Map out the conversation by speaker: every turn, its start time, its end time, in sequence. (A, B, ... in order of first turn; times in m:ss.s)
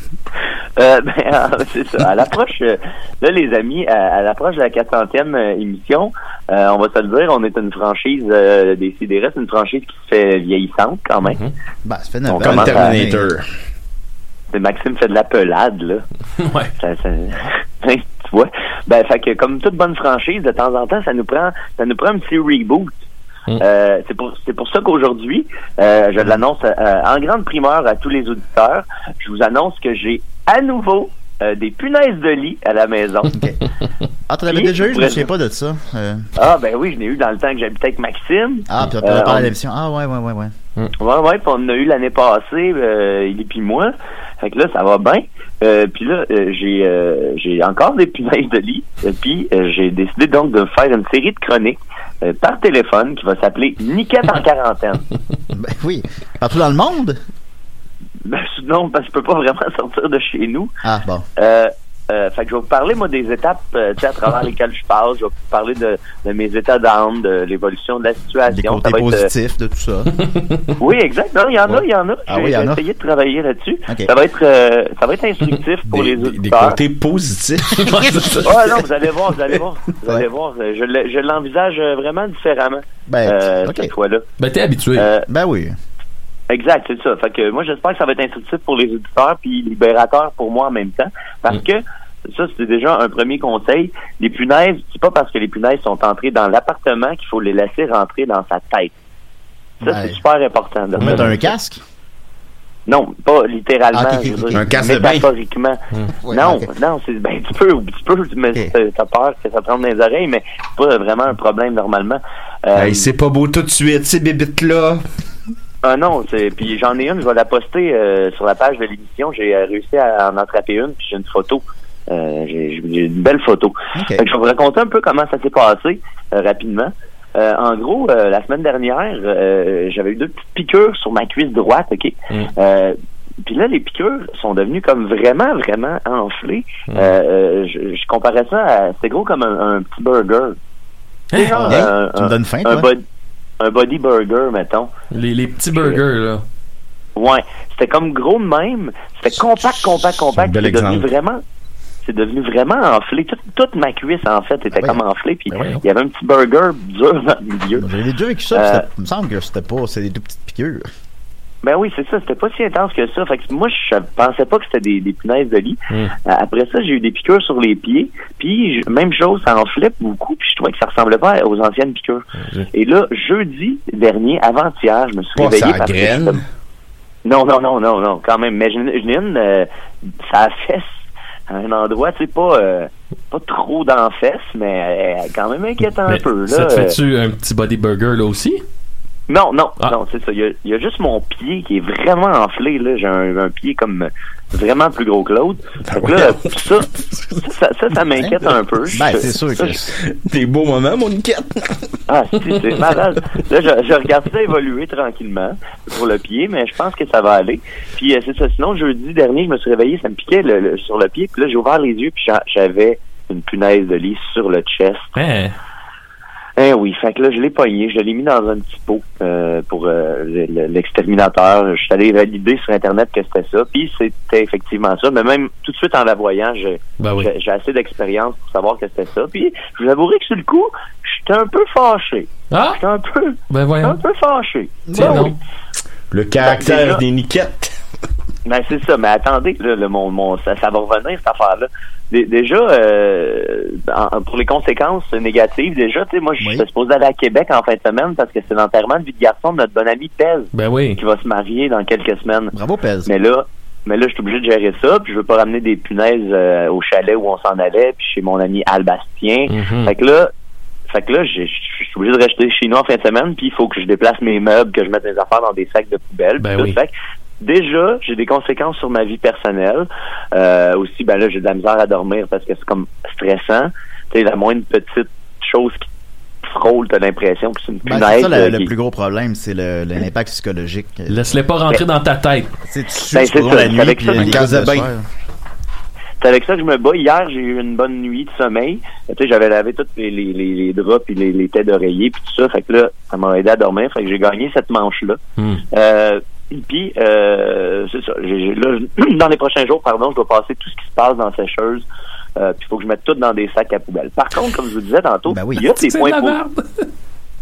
0:00.8-0:11.4 A
0:11.2-0:11.5 B
0:11.8-0:13.3 C
0:12.3-0:13.0 A
0:12.4-0:13.5 D
0:14.5-0:16.0 A
0:16.4-0:16.7 B
0:16.8-0:23.0 A
0:23.6-0:33.4 A
0:34.3-0:36.3 C
0:34.5-0:35.3 A
0:36.4-0:39.5 A
0:38.7-0:40.5 C
0:41.0-0:55.0 A
0:55.5-0:57.2 C
0:58.2-1:00.7 A
1:00.8-1:01.3 C
1:01.4-1:09.3 A
1:08.5-1:10.1 C
1:10.3-1:10.7 B
1:10.8-1:16.8 A
1:11.7-1:12.8 C
1:15.9-1:18.8 D
1:17.8-1:18.5 B
1:18.4-1:24.2 A
1:23.1-1:23.9 C
1:24.4-1:25.1 B
1:25.0-1:25.3 A
1:25.3-1:25.8 C
1:26.5-1:38.9 A
1:39.8-1:40.2 C
1:39.8-1:41.3 A
1:41.0-1:41.8 C
1:41.0-1:41.3 B
1:42.9-1:53.1 A
1:43.9-1:44.8 C
1:44.5-1:45.3 D
1:46.2-1:46.7 C
1:52.8-1:55.0 D
1:55.8-2:20.6 A
2:04.0-2:04.2 C
2:16.9-2:17.1 B
2:21.3-2:21.9 B
2:21.3-2:23.0 A
2:21.6-2:22.9 C
2:23.6-2:24.9 A
2:25.1-2:26.4 B
2:25.8-2:26.0 A
2:27.2-2:31.4 A
2:30.1-2:31.1 D
2:32.0-2:37.9 A
2:34.7-2:35.0 C
2:35.5-2:35.8 B
2:37.8-2:40.9 C
2:38.5-2:38.8 A
2:41.6-2:56.4 A
2:52.4-2:52.7 B
2:55.4-2:56.4 D
2:57.2-3:07.0 A
3:06.1-3:08.6 B
3:09.3-3:19.8 A
3:15.9-3:16.6 D
3:18.2-3:19.9 C
3:20.1-3:21.9 D
3:22.1-3:35.1 A
3:35.2-3:35.6 B
3:36.6-3:55.3 A
3:47.0-3:47.3 B
3:52.5-3:52.8 B
3:53.5-3:54.0 B
3:54.9-3:55.3 C
3:54.9-3:55.4 B
3:56.1-3:57.7 D
3:56.4-3:57.0 A
3:58.4-4:12.5 A
4:06.4-4:06.6 C
4:10.5-4:11.0 B
4:12.5-4:13.1 C
4:13.1-4:20.3 A
4:19.5-4:19.9 B
4:20.9-4:35.9 A
4:26.4-4:26.8 B
4:36.4-4:38.7 A
4:37.8-4:41.2 C
4:41.1-4:42.5 B
4:42.7-4:45.1 C
4:43.1-4:44.4 A
4:44.1-4:44.9 D
4:46.2-4:55.2 A
4:55.4-4:55.6 B
4:55.7-5:01.8 A
5:02.4-5:06.4 A
5:05.3-5:05.7 C
5:05.6-5:06.9 B